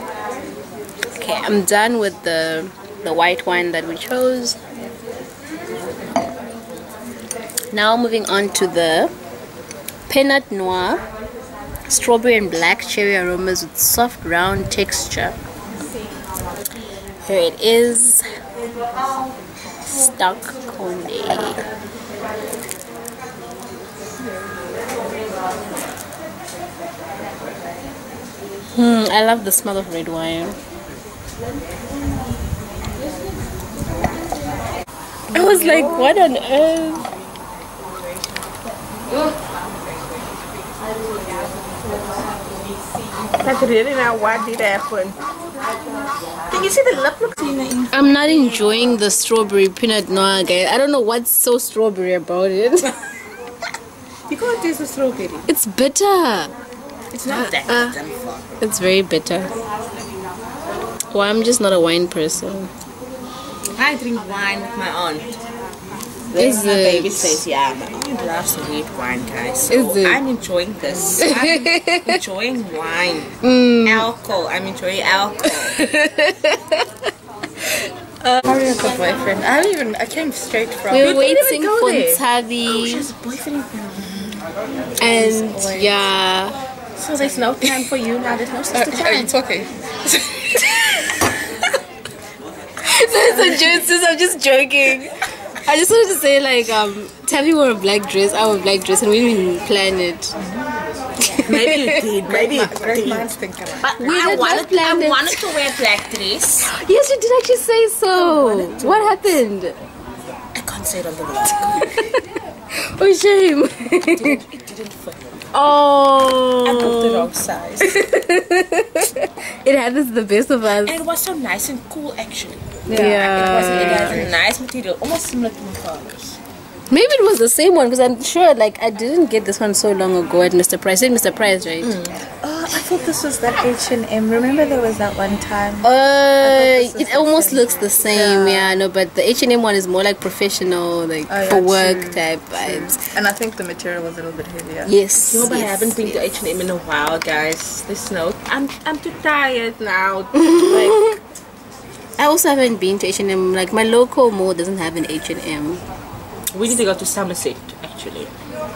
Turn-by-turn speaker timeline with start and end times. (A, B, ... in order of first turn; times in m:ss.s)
0:01.1-0:04.6 A
0:07.7-0:09.1 A
0:10.1-0:11.0 A
0:11.9-0:15.4 A
0:17.2-0:18.2 A
0:19.8-0:21.6 A
0:28.7-0:30.6 A
0:35.3-0:37.1 A
0:43.4-0:45.2 B
0:46.5-0:47.9 B
0:47.9-0:52.9 A
0:54.3-0:55.4 B
0:55.5-0:56.5 A
0:57.1-0:58.5 B
0:57.3-0:58.0 A
0:58.6-0:59.5 A
1:01.1-1:02.7 A
1:03.8-1:05.4 B
1:06.3-1:15.8 B
1:06.3-1:07.4 A
1:09.7-1:10.2 A
1:11.2-1:12.2 A
1:13.4-1:14.1 A
1:15.7-1:16.9 A
1:18.4-1:24.3 B
1:18.9-1:19.3 C
1:20.8-1:21.4 C
1:20.9-1:23.1 A
1:25.0-1:26.6 A
1:25.0-1:26.0 B
1:27.0-1:29.4 B
1:28.7-1:29.7 C
1:32.8-1:40.3 A
1:41.2-1:46.7 B
1:41.2-1:41.9 A
1:42.3-1:43.9 C
1:44.0-1:45.6 A
1:46.6-1:49.8 A
1:48.2-1:49.1 B
1:50.6-1:51.9 B
1:51.7-1:54.4 A
1:54.1-1:55.2 B
1:55.5-2:01.0 A
1:56.6-1:57.9 B
2:00.8-2:06.4 B
2:02.9-2:03.2 C
2:02.9-2:04.3 A
2:04.0-2:04.2 C
2:06.9-2:12.1 A
2:11.8-2:12.2 B
2:12.4-2:18.8 C
2:15.8-2:23.0 A
2:21.3-2:24.9 C
2:24.8-2:26.2 A
2:25.2-2:31.1 B
2:30.4-2:31.2 A
2:32.2-2:35.8 A
2:36.5-2:38.3 B